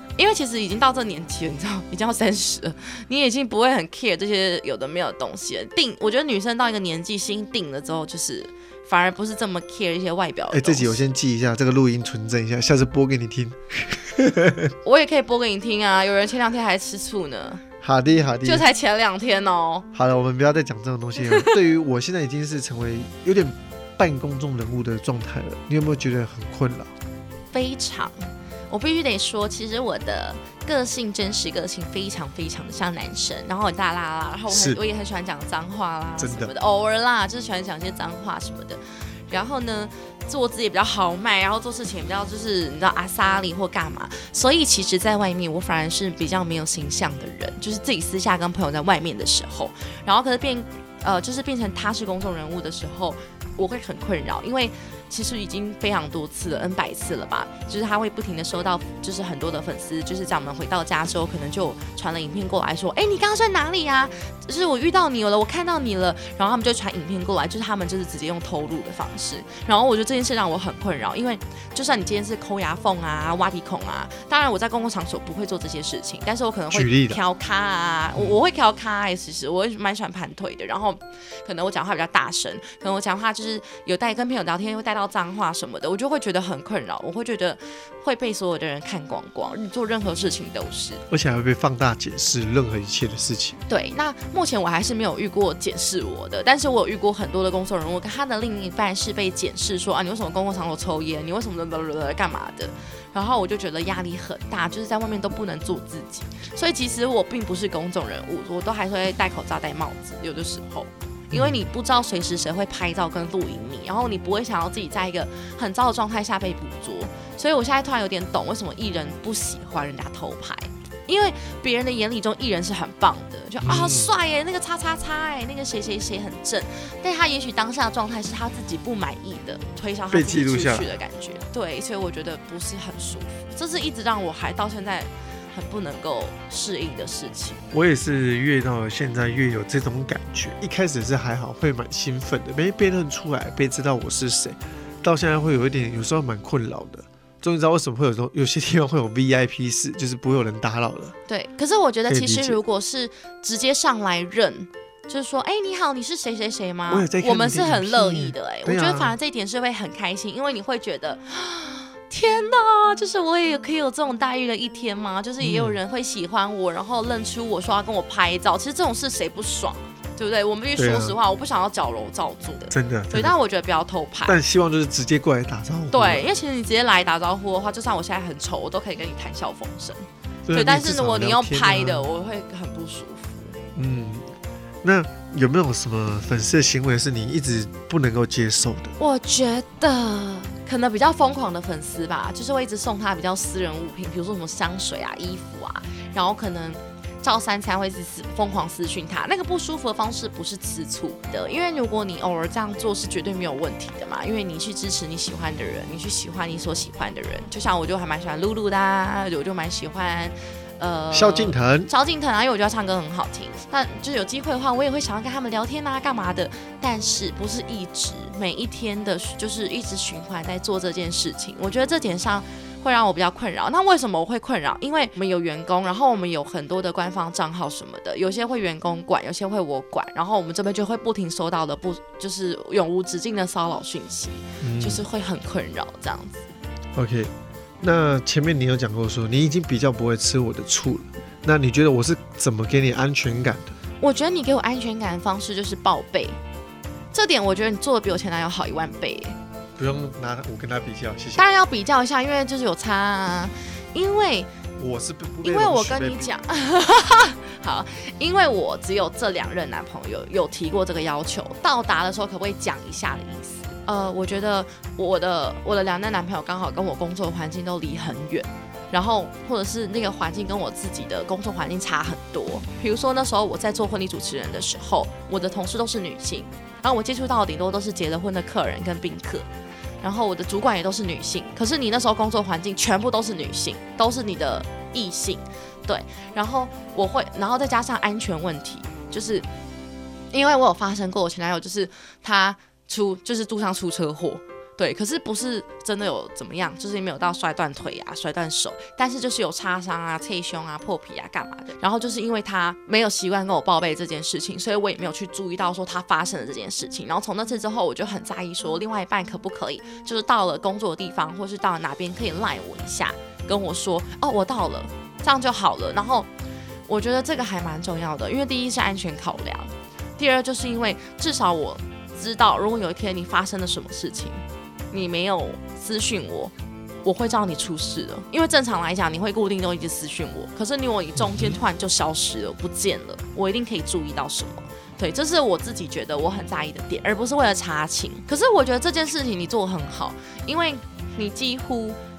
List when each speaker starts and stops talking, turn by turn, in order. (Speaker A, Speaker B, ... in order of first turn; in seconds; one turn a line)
Speaker A: 0.2-11.1
Speaker B: 10.5-14.7
Speaker A: 14.8-17.6
Speaker B: 17.8-18.7
Speaker A: 18.4-19.9
Speaker B: 19.9-26.9
Speaker A: 21.2-21.5
Speaker A: 27.5-91.0
Speaker B: 34.5-34.8
Speaker B: 36.2-36.5
Speaker B: 76.7-77.2
Speaker B: 91.1-93.6
Speaker A: 93.7-137.6
Speaker B: 111.3-111.7
Speaker B: 123.6-124.1
Speaker B: 130.1-131.0
Speaker B: 137.7-151.2
Speaker A: 151.3-174.4
Speaker B: 152.1-152.6
Speaker B: 156.9-159.2
Speaker B: 165.4-165.8
Speaker B: 170.8-171.2
Speaker B: 172.7-173.3
Speaker B: 174.2-176.2
Speaker A: 175.9-183.7
Speaker B: 180.5-182.1
Speaker B: 183.8-188.9
Speaker A: 189.0-236.5
Speaker B: 211.1-211.9
Speaker B: 234.6-235.1
Speaker B: 236.9-243.8
Speaker A: 244.0-246.4
Speaker A: 247.1-249.4
Speaker B: 249.8-251.4
Speaker A: 251.4-254.5
Speaker B: 254.8-256.3
Speaker A: 255.4-279.5
Speaker A: 280.0-289.5
Speaker A: 290.3-316.3
Speaker A: 316.9-326.5
Speaker A: 327.0-342.0
Speaker B: 331.2-331.6